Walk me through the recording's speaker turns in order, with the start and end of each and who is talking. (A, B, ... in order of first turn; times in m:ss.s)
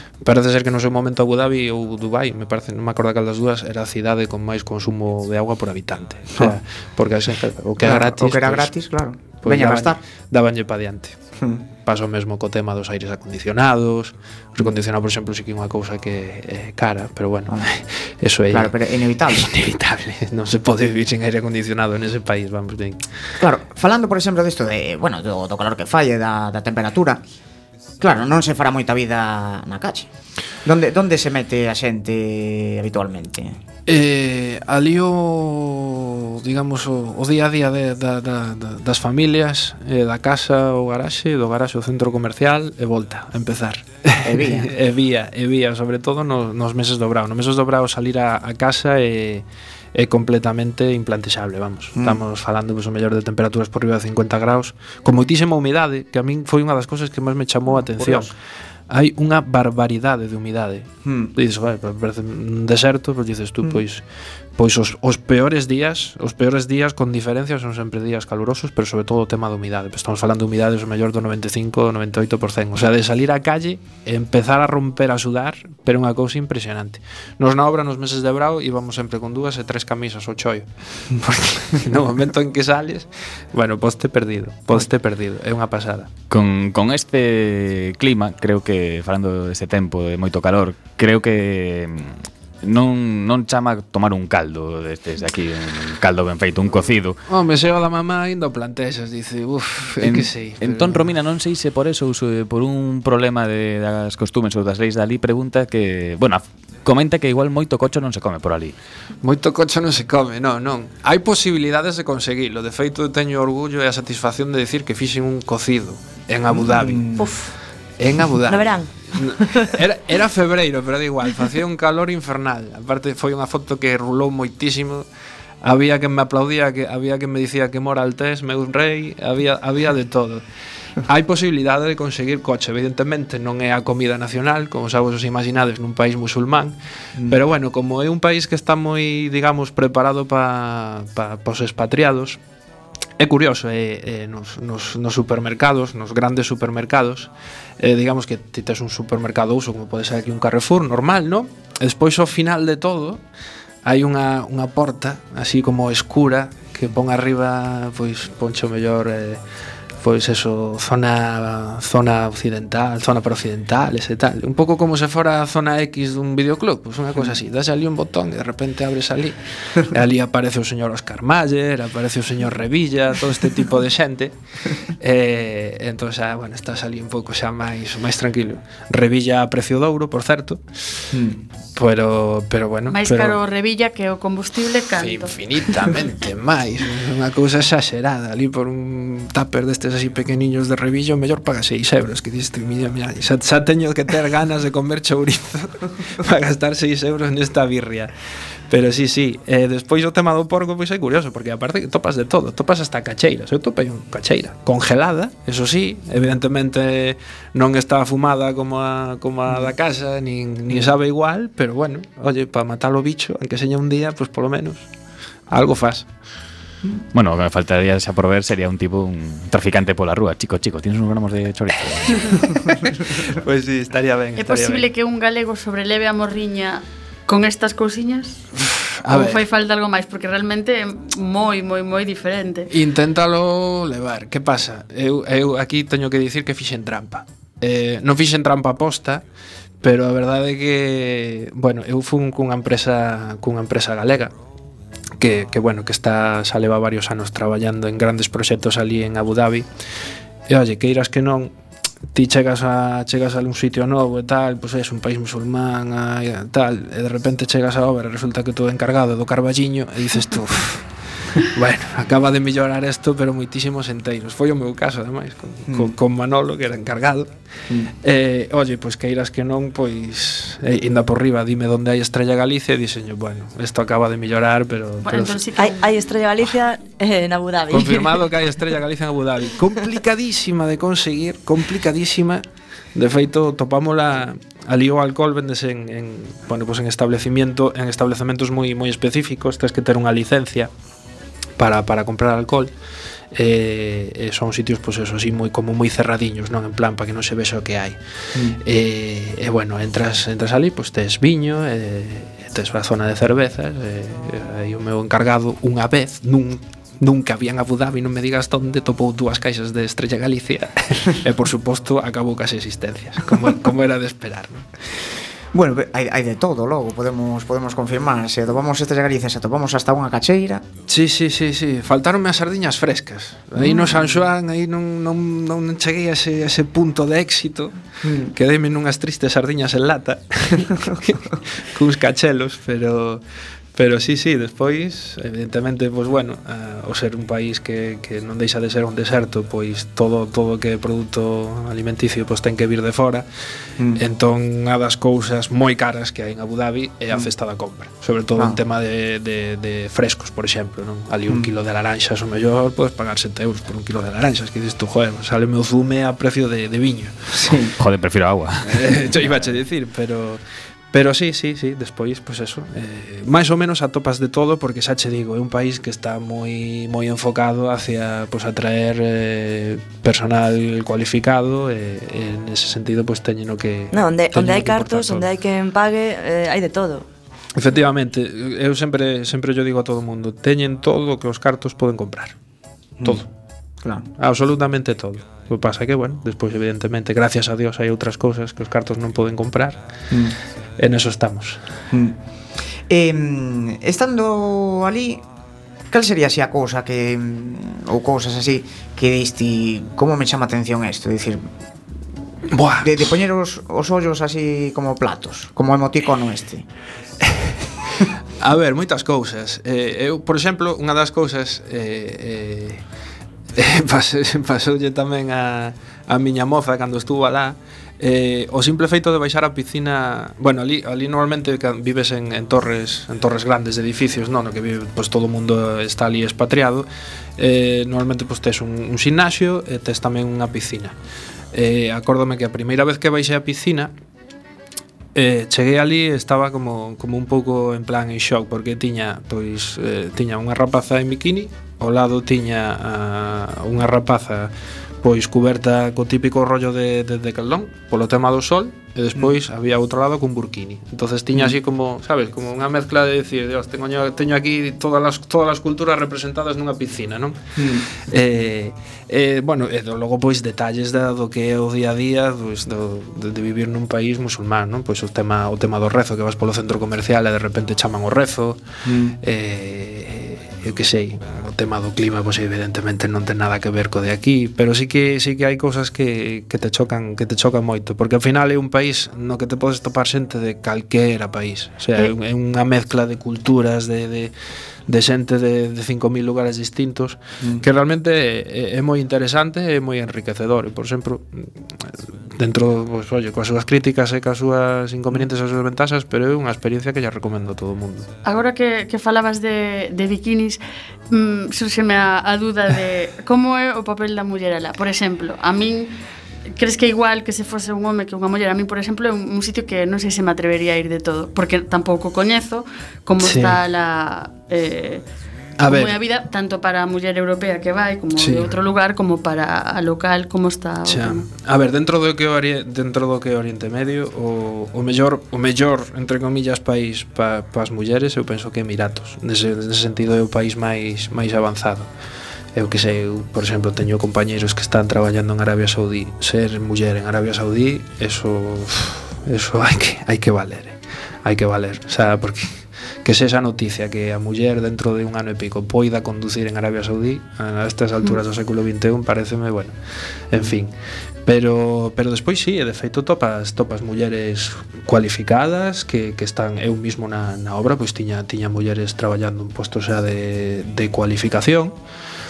0:00.2-0:08.7 A
0:07.8-0:10.0 B
0:09.4-0:11.2 A
0:11.4-0:11.6 B
0:11.8-0:18.7 A
0:18.5-0:19.6 B
0:19.3-0:23.0 A
0:23.4-0:27.2 B
0:28.0-0:30.1 B
0:30.6-0:33.6 B
0:33.9-0:58.3 A
0:44.2-0:44.7 B
0:51.9-0:52.2 B
0:57.8-0:58.3 B
0:58.9-1:04.0 A
1:01.0-1:01.3 B
1:04.6-1:26.1 A
1:26.3-1:37.2 C
1:37.3-1:41.1 A
1:40.0-1:48.7 C
1:49.2-1:57.0 A
1:56.5-1:57.3 B
1:57.2-1:57.5 D
1:58.0-2:05.1 A
1:58.4-1:59.8 D
2:05.6-2:10.4 A
2:11.0-2:22.4 A
2:23.2-2:33.2 A
2:33.8-2:39.4 A
2:40.0-3:01.1 A
3:01.1-3:01.4 B
3:01.7-3:03.4 A
3:02.9-3:05.3 E
3:05.0-3:18.1 A
3:18.7-3:34.9 A
3:35.5-3:36.1 A
3:37.1-3:42.4 C
3:42.3-3:44.9 A
3:44.4-3:48.4 E
3:48.5-3:49.4 A
3:49.1-3:52.7 E
3:52.7-3:59.2 A
3:59.8-4:04.3 A
4:05.2-4:09.7 A
4:10.5-4:11.5 A
4:12.1-4:27.3 A
4:25.6-4:25.9 B
4:28.0-4:35.4 A
4:35.0-4:35.9 E
4:35.6-4:38.2 D
4:37.7-4:42.4 A
4:42.9-4:50.7 A
4:51.6-4:52.7 A
4:53.3-4:58.0 A
4:58.5-5:14.7 A
5:15.5-5:20.6 B
5:20.9-5:27.7 A
5:23.6-5:24.2 B
5:28.0-5:28.3 B
5:28.2-5:33.2 A
5:33.7-5:43.2 A
5:43.9-5:57.4 A
5:57.3-5:57.7 B
5:57.8-5:59.3 C
5:58.6-6:00.4 A
6:00.9-6:15.3 A
6:13.9-6:17.1 D
6:17.5-6:22.4 A
6:23.0-6:23.3 A
6:24.2-6:29.8 A
6:30.8-6:31.6 A
6:31.9-6:32.2 B
6:32.9-6:35.2 B
6:35.9-6:41.4 B
6:42.5-6:43.0 A
6:42.8-6:46.6 B
6:47.2-6:47.5 A
6:48.4-6:52.8 A
6:53.5-7:06.9 A
7:07.4-7:10.9 A
7:11.5-7:13.9 A
7:15.1-8:04.3 A
7:37.6-7:37.8 B
7:48.8-7:49.2 B
8:04.9-8:18.1 A
8:18.2-8:25.9 E
8:26.5-8:35.0 E
8:33.2-8:33.6 A
8:35.6-8:36.0 A
8:35.7-8:41.2 E
8:38.2-8:38.5 A
8:40.8-8:51.9 A
8:52.5-9:09.8 A
9:10.3-9:10.7 A
9:11.2-9:21.7 A